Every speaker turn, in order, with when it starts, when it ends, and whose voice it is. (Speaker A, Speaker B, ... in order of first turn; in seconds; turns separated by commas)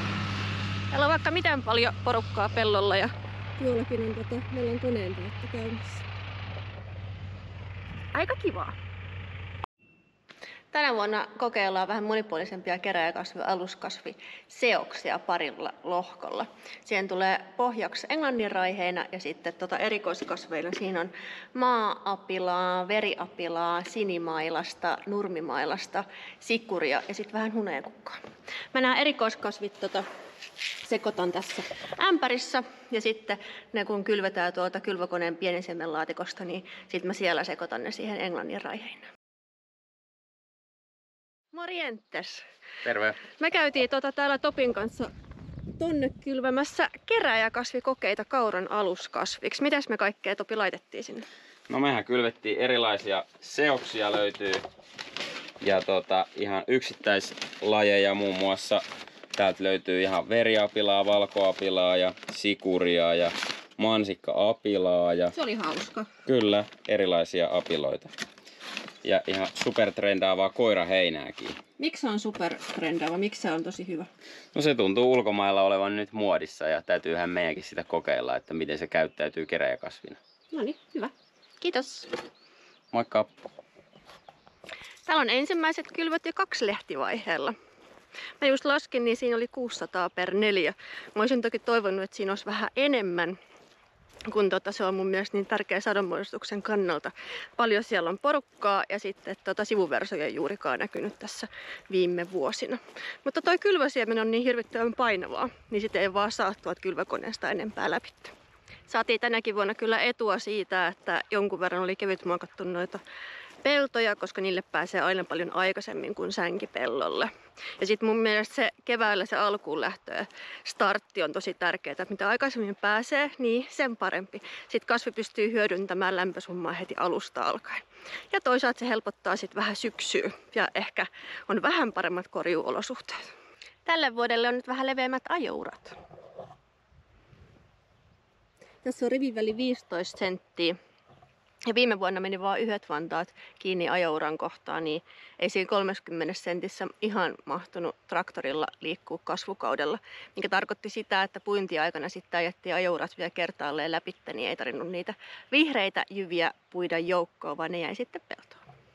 Speaker A: 0.9-6.0, Speaker A: 8.1-8.7, Speaker A: 10.7-28.2, Speaker A: 28.7-30.0, Speaker A: 30.8-39.1, Speaker A: 41.5-42.4, Speaker B: 42.8-43.2, Speaker A: 43.2-45.1, Speaker A: 45.8-51.3, Speaker B: 51.7-54.6, Speaker B: 55.6-58.8, Speaker B: 59.3-65.3, Speaker A: 65.3-66.1, Speaker B: 66.2-68.1, Speaker B: 69.0-71.6, Speaker A: 71.8-74.1, Speaker B: 74.5-80.2, Speaker A: 80.5-82.1, Speaker B: 82.9-83.3, Speaker A: 85.0-87.5, Speaker A: 88.4-93.4, Speaker A: 94.3-108.3, Speaker A: 108.9-113.0, Speaker A: 113.6-133.3, Speaker A: 133.8-135.9, Speaker A: 138.8-140.8, Speaker A: 141.7-158.6